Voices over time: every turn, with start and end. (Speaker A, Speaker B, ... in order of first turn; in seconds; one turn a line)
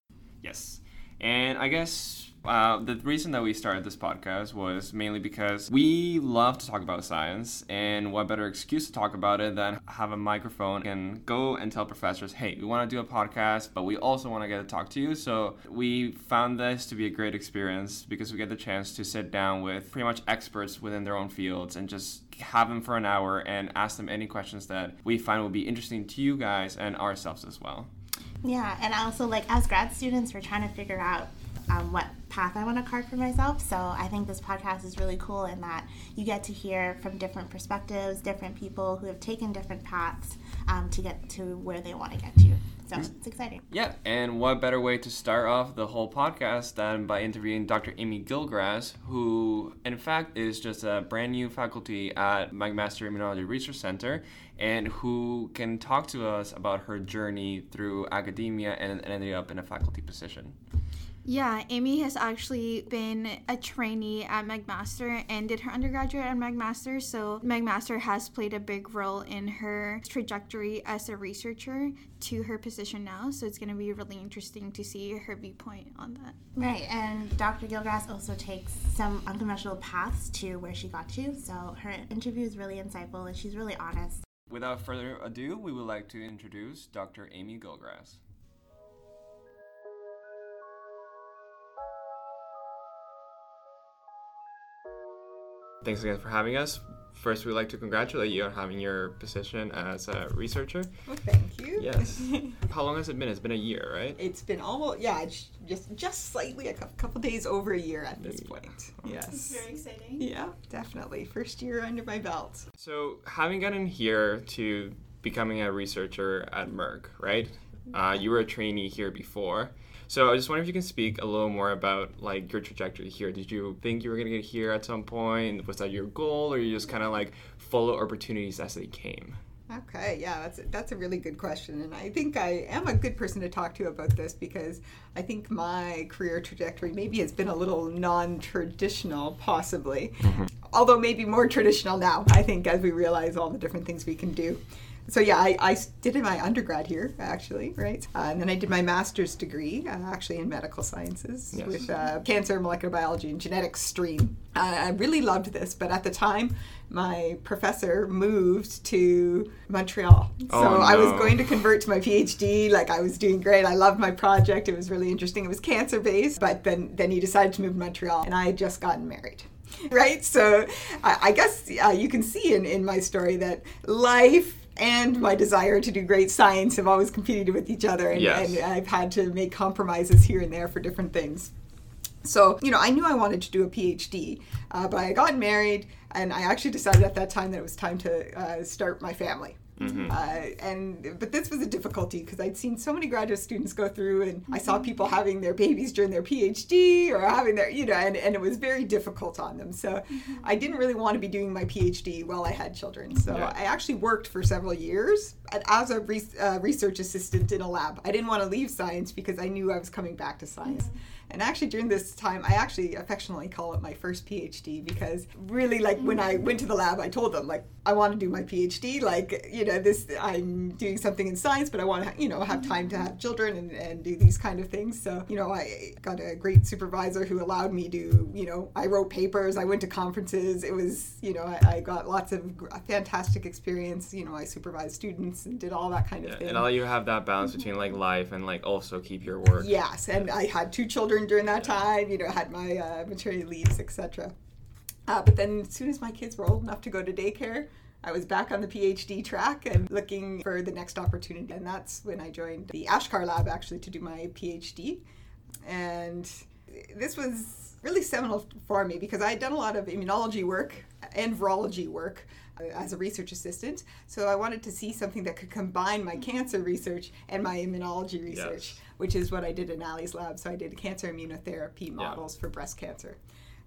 Speaker A: 0.4-27.9
Speaker B: 28.4-43.6
Speaker A: 43.7-60.6
Speaker C: 61.2-76.4
Speaker B: 76.6-84.2
Speaker A: 84.5-88.2
Speaker A: 95.8-100.9
Speaker D: 101.1-102.6
Speaker A: 101.8-104.2
Speaker D: 104.2-109.7
Speaker A: 108.2-108.5
Speaker C: 109.3-110.3
Speaker D: 110.2-112.7
Speaker A: 112.8-129.4
Speaker D: 129.7-181.5
Speaker A: 140.2-140.5
Speaker A: 151.5-151.9
Speaker A: 160.5-161.4
Speaker A: 178.1-178.7
Speaker D: 182.2-236.7
Speaker A: 189.8-190.2
Speaker C: 189.8-190.2
Speaker C: 200.1-200.5
Speaker A: 203.3-203.5
Speaker C: 210.7-211.0
Speaker A: 236.2-239.8
Speaker D: 239.6-244.3
Speaker D: 245.1-255.0
Speaker D: 255.6-273.2
Speaker A: 268.3-268.8